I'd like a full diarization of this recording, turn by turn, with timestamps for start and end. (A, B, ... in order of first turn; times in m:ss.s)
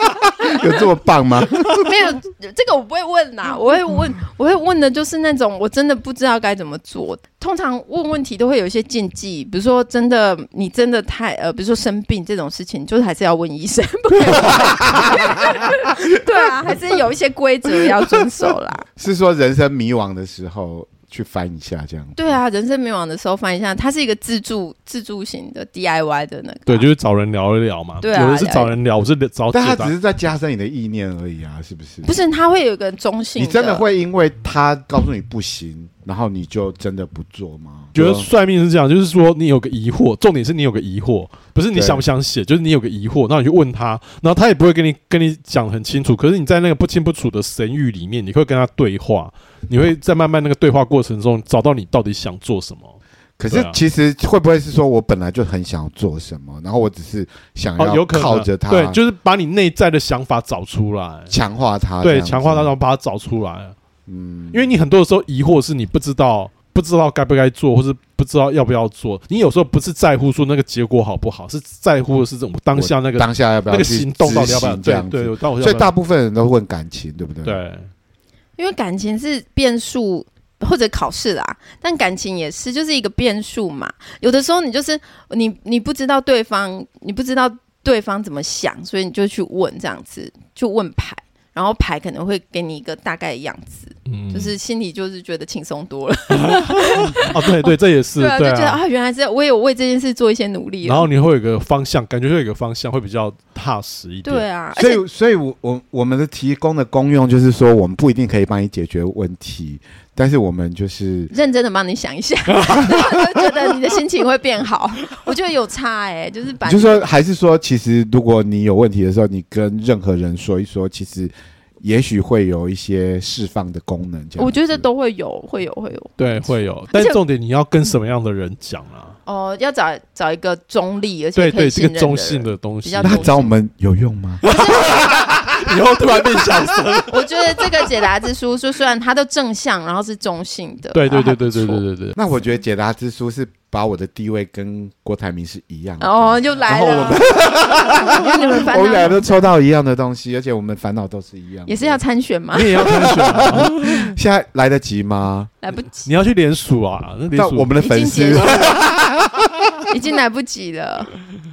0:00.4-0:01.8 A
0:01.7-0:18.8 B
0:14.2-0:15.6 A
0:19.0-0:22.3 A
0:22.2-0:26.9 B
0:26.7-0:29.9 C
0:28.0-0:28.7 B
0:29.5-0:32.1 A
0:32.0-0:33.8 B
0:33.4-0:38.3 A
0:37.9-0:53.0 C
0:41.7-0:42.0 A
0:53.4-0:59.0 A
0:53.5-0:53.8 C
0:57.8-1:01.3 C
1:01.3-1:02.7 A
1:02.0-1:03.7 C
1:04.1-1:04.7 A
1:04.5-1:15.9 C
1:12.7-1:17.6 A
1:17.4-1:17.9 C
1:18.6-1:41.1 B
1:34.0-1:34.5 C
1:36.3-1:38.8 C
1:40.8-1:44.4 C
1:44.2-1:45.0 B
1:44.7-1:51.3 A
1:51.3-1:57.1 B
1:56.6-2:04.8 A
2:04.4-2:07.2 B
2:06.2-2:09.2 C
2:09.2-2:13.5 B
2:11.4-2:13.4 C
2:13.0-2:14.4 A
2:14.4-2:17.3 C
2:14.5-2:15.3 B
2:17.1-2:21.8 B
2:20.9-2:22.2 C
2:22.2-2:32.0 A
2:26.0-2:29.5 B
2:31.7-2:32.9 B
2:32.5-2:34.1 C
2:32.8-2:35.5 A
2:35.6-2:36.1 B
2:36.0-2:37.8 C
2:37.3-2:39.7 A
2:37.8-2:38.8 B
2:38.4-2:38.7 C
2:39.9-2:41.1 B